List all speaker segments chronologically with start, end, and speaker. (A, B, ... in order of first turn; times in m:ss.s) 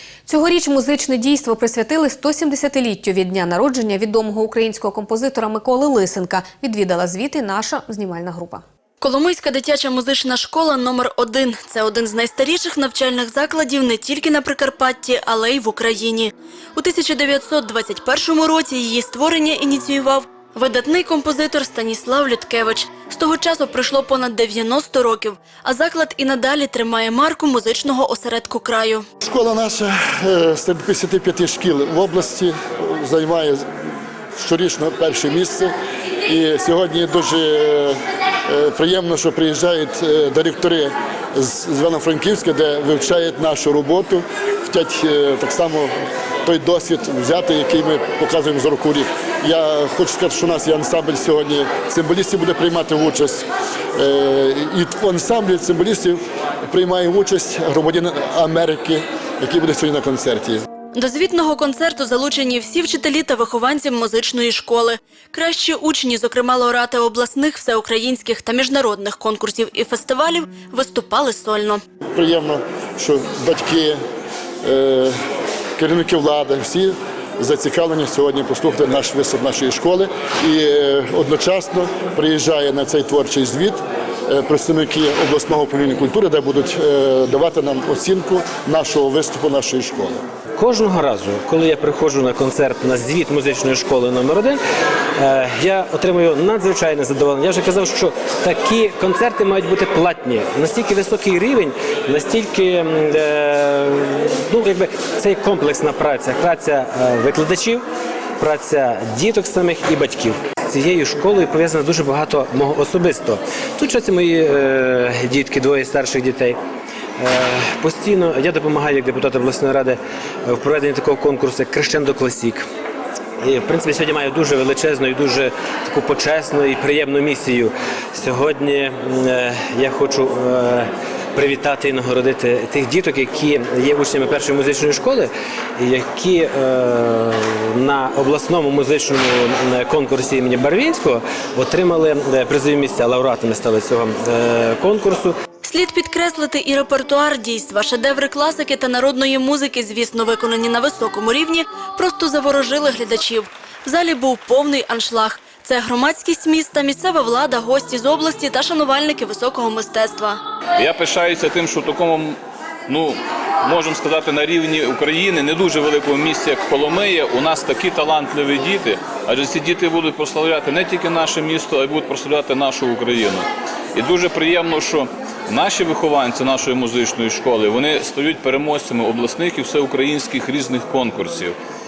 0:00.3-0:08.6 A
0:09.0-0:29.0 B
0:29.2-0:33.7 C
0:34.4-0:35.7 C
0:36.3-0:45.9 C
0:46.4-1:00.6 C
1:01.0-1:11.8 B
1:12.2-1:14.0 C
1:14.6-1:15.1 C
1:15.8-1:30.2 C
1:30.6-1:34.6 D
1:35.2-1:47.8 D
1:48.4-1:56.6 D
1:57.2-2:02.7 D
2:03.4-2:25.4 D
2:25.6-2:40.4 B
2:40.8-3:01.6 E